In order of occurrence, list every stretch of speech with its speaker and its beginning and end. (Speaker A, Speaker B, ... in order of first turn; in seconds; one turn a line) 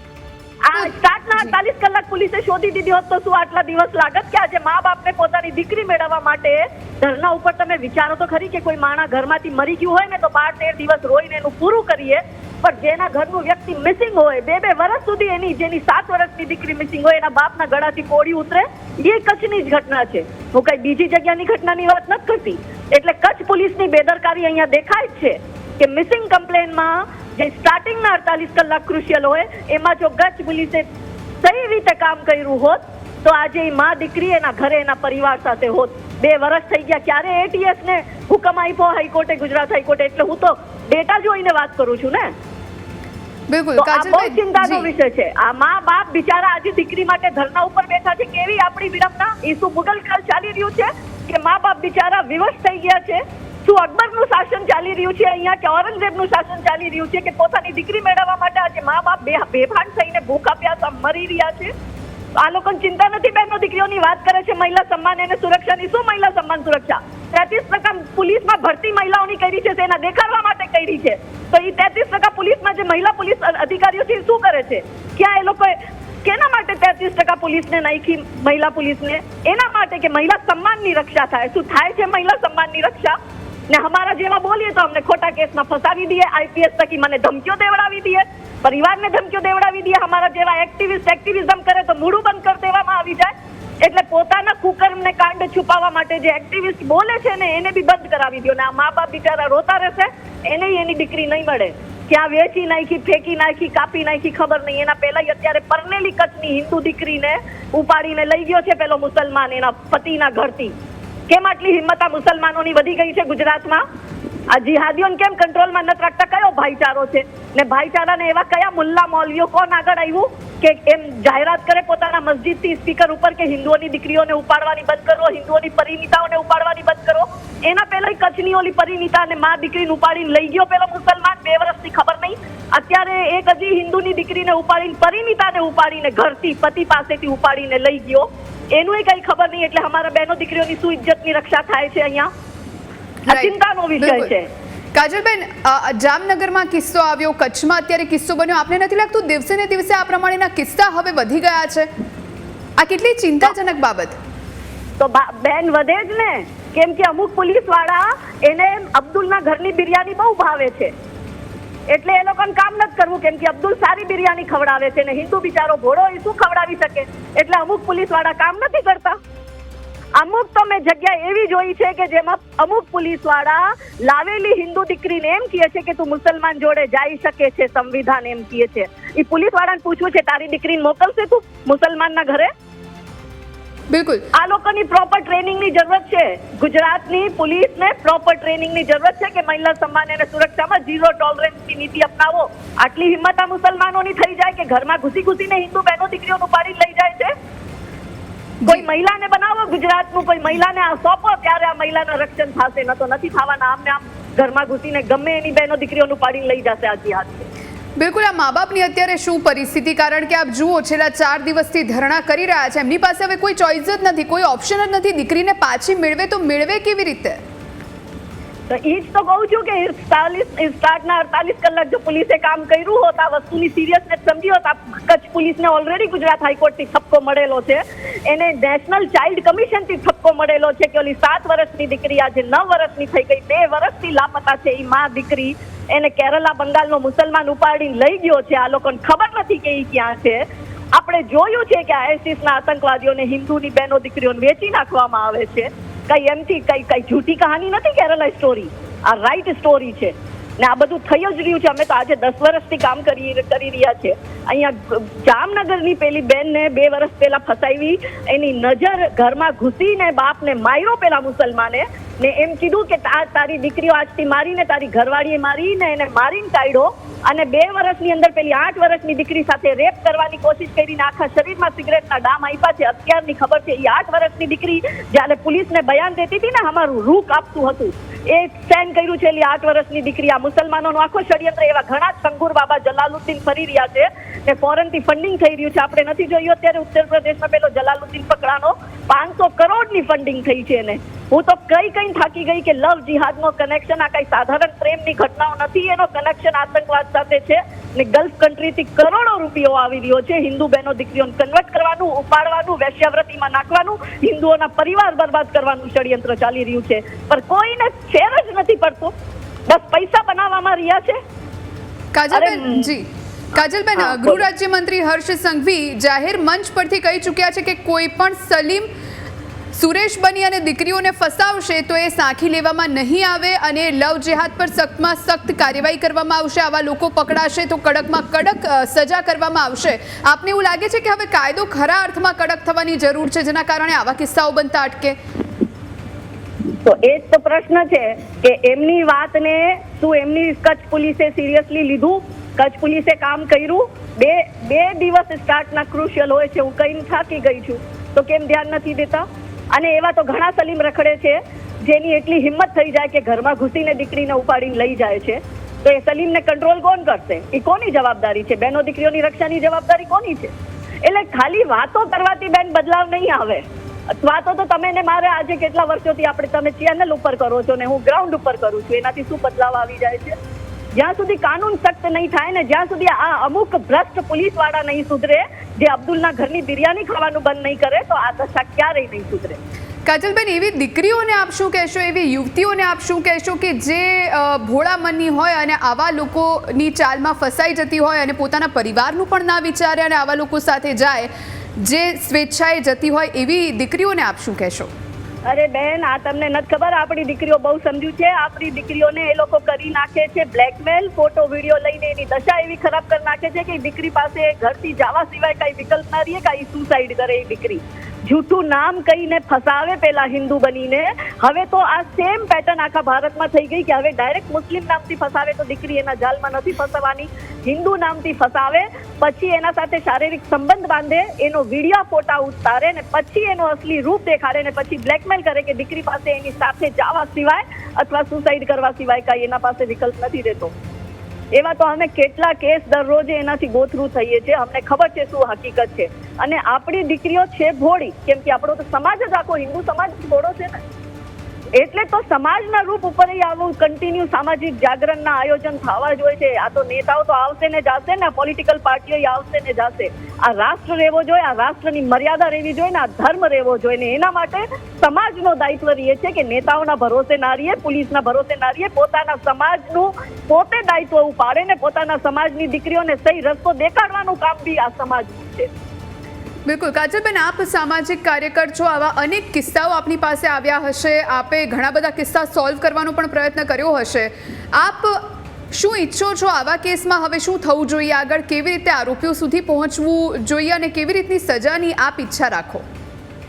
Speaker A: 0.7-30.8
Speaker B: 0.7-1.5
Speaker A: 31.4-42.3
Speaker B: 43.5-44.9
Speaker A: 43.8-61.7
Speaker A: 62.4-83.2
Speaker A: 83.7-110.7
Speaker A: 111.3-113.8
Speaker A: 114.5-142.3
Speaker A: 143.3-144.5
Speaker B: 143.3-144.3
Speaker B: 144.9-151.9
Speaker B: 152.8-154.2
Speaker A: 155.0-160.9
Speaker A: 161.9-169.2
Speaker A: 170.2-182.5
Speaker B: 183.9-184.3
Speaker A: 184.3-197.3
Speaker A: 198.6-207.5
Speaker B: 208.0-217.4
Speaker A: 218.7-309.1
Speaker A: 309.7-311.2
Speaker B: 312.1-318.9
Speaker A: 312.3-312.9
Speaker A: 313.9-314.4
Speaker B: 319.7-335.1
Speaker A: 336.8-360.5
Speaker A: 361.0-370.4
Speaker A: 370.9-379.6
Speaker B: 380.1-394.9
Speaker A: 395.4-430.7
Speaker A: 431.5-440.8
Speaker A: 441.8-465.7
Speaker B: 466.6-482.8